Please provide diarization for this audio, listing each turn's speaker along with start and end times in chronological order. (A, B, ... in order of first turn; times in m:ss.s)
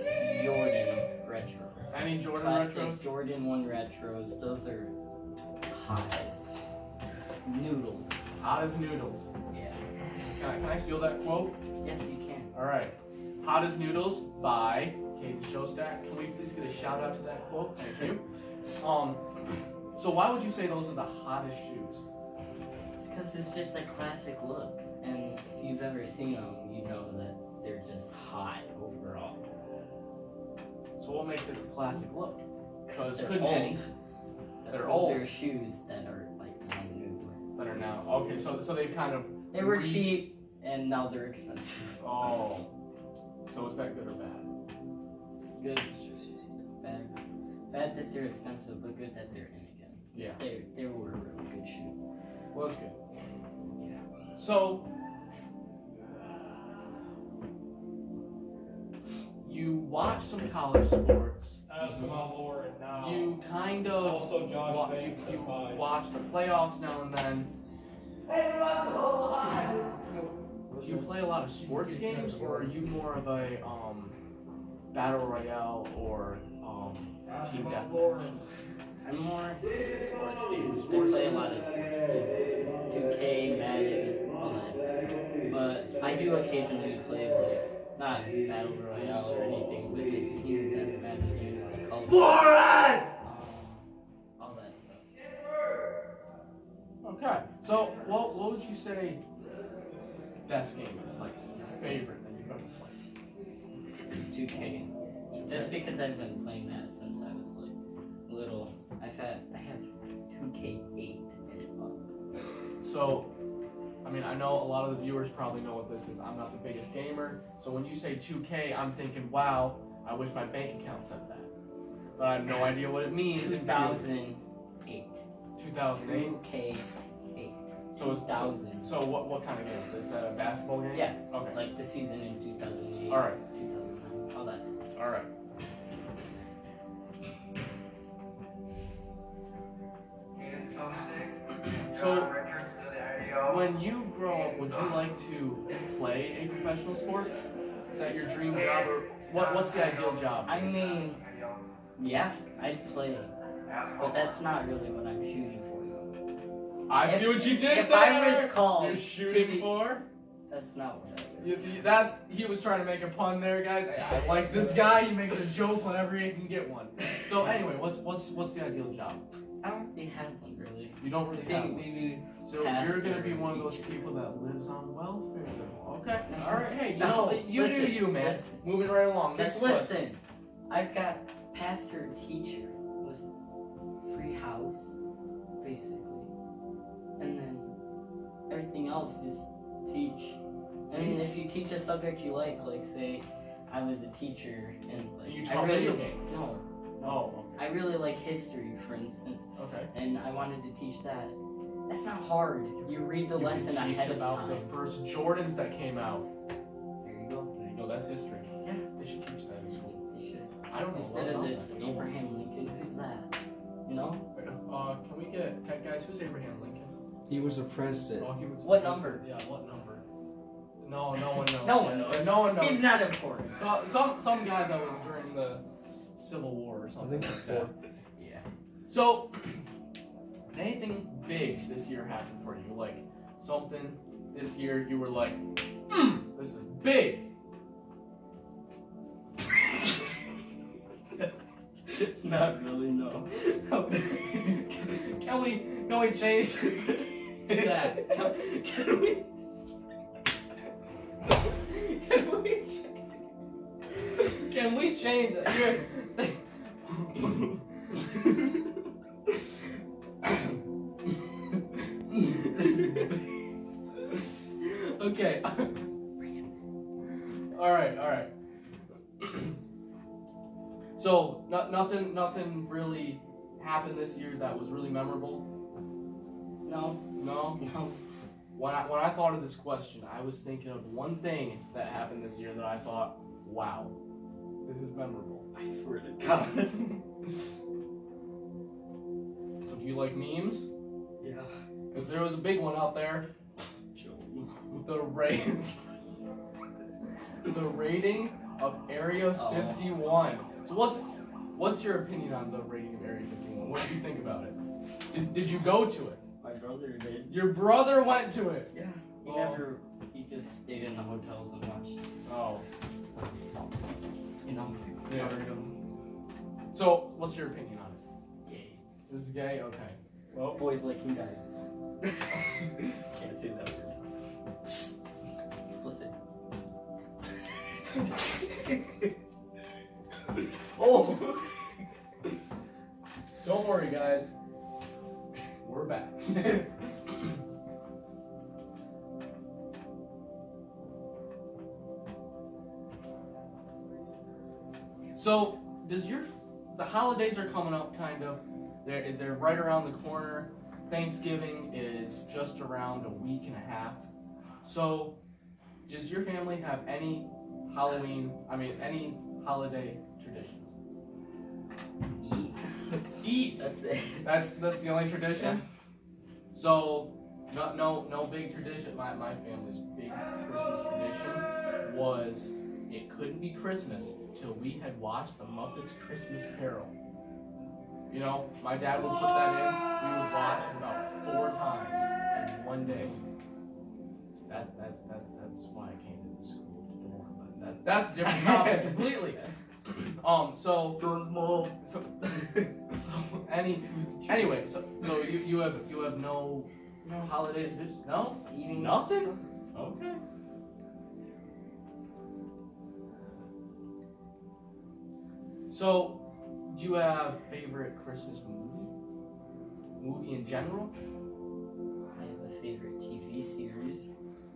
0:00.2-0:05.0 A
0:01.9-0:03.1 B
0:05.6-0:06.6 A
0:07.4-0:08.2 A
0:08.4-0:09.3 B
0:09.5-0:09.8 A
0:10.2-0:11.5 B
0:11.8-0:12.5 A
0:12.5-0:18.2 B
0:18.8-0:19.2 B
0:19.9-0:22.0 B
0:23.0-0:29.4 A
0:31.0-0:33.9 B
0:32.9-0:33.9 A
0:34.6-0:37.4 A
0:34.7-0:35.3 B
0:37.6-0:40.2 B
0:39.5-0:42.0 A
0:42.0-0:42.7 B
0:43.4-0:44.5 B
0:45.6-0:51.9 A
0:50.1-0:50.4 B
0:52.5-0:53.0 B
0:54.4-0:54.9 B
0:59.4-1:02.2 B
1:01.7-1:03.4 C
1:02.9-1:07.5 B
1:04.0-1:05.9 C
1:08.8-1:09.8 D
1:10.7-1:11.0 D
1:10.8-1:14.2 B
1:14.9-1:18.5 B
1:17.2-1:18.4 D
1:19.0-1:19.9 A
1:20.0-1:21.4 B
1:20.4-1:24.9 A
1:25.5-1:33.9 A
1:28.9-1:29.2 B
1:34.4-1:35.2 A
1:37.0-1:39.2 B
1:40.5-1:43.0 B
1:44.2-1:44.9 A
1:45.3-1:45.8 B
1:45.4-1:47.7 A
1:48.3-1:52.1 A
1:52.8-1:53.3 B
1:54.0-2:01.5 B
2:02.2-2:04.1 B
2:03.3-2:05.2 A
2:05.6-2:06.4 B
2:06.0-2:08.9 A
2:07.9-2:11.6 B
2:10.9-2:14.6 A
2:13.1-2:13.4 B
2:14.9-2:15.3 B
2:20.4-2:21.3 D
2:21.9-2:22.3 B
2:22.0-2:23.6 E
2:22.1-2:23.4 D
2:23.4-2:27.3 B
2:27.9-2:30.7 B
2:28.6-2:30.7 D
2:30.4-2:31.2 A
2:31.2-2:31.6 D
2:32.0-2:33.3 A
2:33.7-2:34.3 D
2:34.0-2:36.1 A
2:36.9-2:40.0 B
2:37.0-2:39.9 A
2:40.5-2:41.8 A
2:41.4-2:49.2 B
2:44.0-2:45.0 A
2:49.6-2:54.1 A
2:51.0-3:00.0 B
2:56.3-2:58.6 A
2:59.3-3:03.3 A
3:04.0-3:05.0 A
3:05.6-3:06.3 A
3:07.2-3:07.7 A
3:08.5-3:21.4 A
3:10.9-3:11.3 B
3:15.2-3:16.4 B
3:17.0-3:17.6 B
3:19.6-3:19.9 B
3:21.9-3:24.7 A
3:23.1-3:26.3 B
3:27.0-3:27.8 A
3:27.7-3:30.0 B
3:30.0-3:33.3 A
3:30.7-3:32.1 B
3:33.8-3:34.2 A
3:34.3-3:36.9 B
3:37.3-3:38.3 E
3:38.2-3:40.0 B
3:38.6-3:39.2 A
3:40.8-3:42.9 B
3:41.4-3:43.6 A
3:43.5-3:45.6 B
3:46.2-3:47.7 B
3:47.0-3:47.6 E
3:48.2-3:48.4 A
3:48.9-3:49.6 B
3:50.5-3:57.3 B
4:01.9-4:05.0 A
4:04.9-4:08.4 B
4:07.5-4:09.2 A
4:11.6-4:13.0 A
4:14.2-4:16.4 B
4:17.0-4:17.4 B
4:22.2-4:23.1 B
4:24.6-4:25.8 B
4:27.5-4:28.3 B
4:29.2-4:29.6 B
4:31.0-4:35.4 B
4:36.6-4:37.0 A
4:37.2-4:37.6 B
4:37.6-4:38.0 A
4:38.5-4:43.9 B
4:44.6-4:45.4 B
4:45.5-4:47.0 A
4:49.6-4:50.7 B
4:51.2-4:51.6 A
4:51.9-4:53.2 B
4:53.9-4:54.7 A
4:54.7-4:55.8 B
4:57.4-5:04.6 B
4:59.3-4:59.9 A
5:05.1-5:06.2 B
5:06.4-5:07.5 A
5:07.3-5:08.7 B
5:08.7-5:12.0 A
5:09.2-5:09.6 B
5:12.2-5:12.6 B
5:14.4-5:15.7 A
5:15.1-5:15.4 B
5:16.7-5:18.0 B
5:18.4-5:18.8 A
5:19.1-5:20.5 B
5:20.5-5:21.5 A
5:22.0-5:24.0 A
5:25.7-5:26.1 A
5:28.0-5:29.1 A
5:30.8-5:31.5 A
5:33.4-5:34.3 B
5:35.6-5:36.6 B
5:45.1-5:54.1 B
5:54.6-5:55.2 B
5:55.9-6:00.8 B
6:02.2-6:04.3 A
6:03.2-6:03.7 B
6:04.2-6:05.6 B
6:05.3-6:05.6 A
6:06.5-6:16.9 B
6:18.1-6:23.2 B
6:24.5-6:31.0 B
6:28.2-6:29.3 A
6:31.0-6:34.6 A
6:31.8-6:32.4 B
6:33.4-6:40.2 B
6:37.0-6:39.4 A
6:45.7-6:48.9 B
6:50.0-6:50.9 B
6:52.1-6:54.1 A